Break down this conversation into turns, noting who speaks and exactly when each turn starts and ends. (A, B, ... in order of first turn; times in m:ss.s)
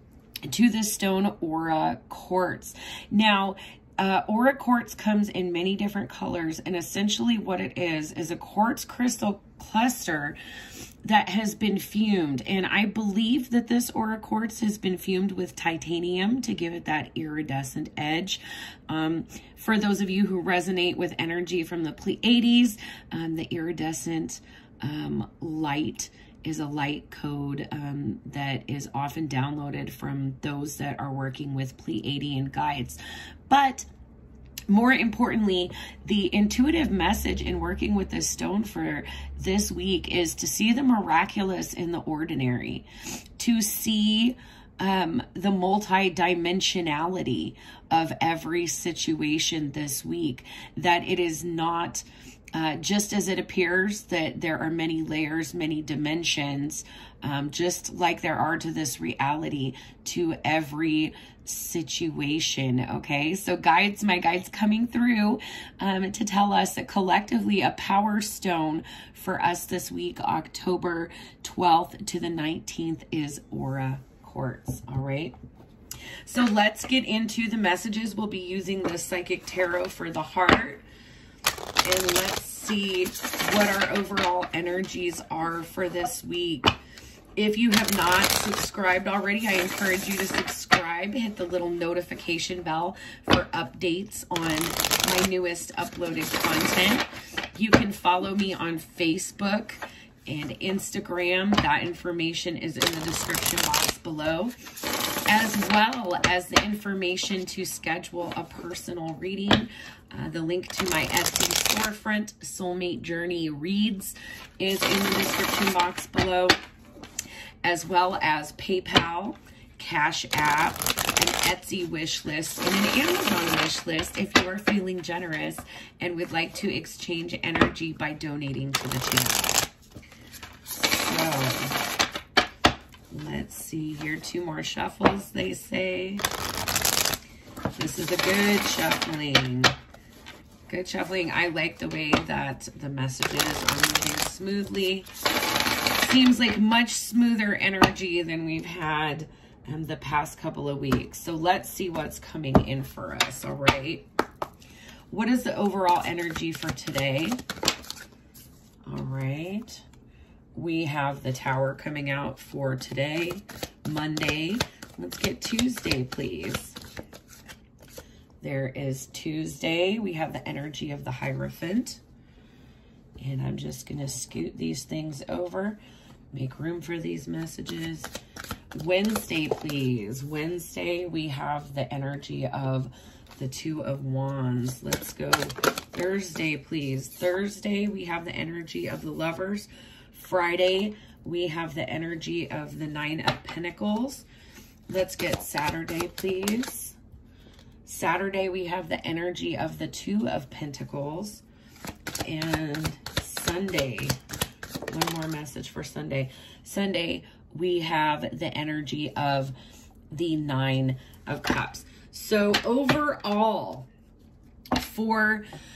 0:00.5-0:10.4 A
0:11.0-0:33.9 A
0:34.7-1:15.4 A
1:16.3-1:20.8 A
1:21.8-1:26.7 A
1:27.4-1:44.6 A
1:45.3-1:56.6 A
1:57.6-2:09.7 A
2:10.8-2:11.8 A
2:13.1-2:16.3 A
2:17.8-2:19.8 A
2:20.7-2:25.1 A
2:26.0-2:34.1 A
2:35.1-2:37.4 A
2:38.9-2:39.8 A
2:40.6-2:46.8 A
2:48.4-2:52.0 A
2:53.2-2:55.8 A
2:56.3-2:58.1 A
2:58.7-3:14.3 A
3:14.9-3:17.0 A
3:17.8-3:21.4 A
3:22.2-3:24.2 A
3:24.9-3:29.6 A
3:30.1-3:33.9 A
3:34.7-3:35.5 A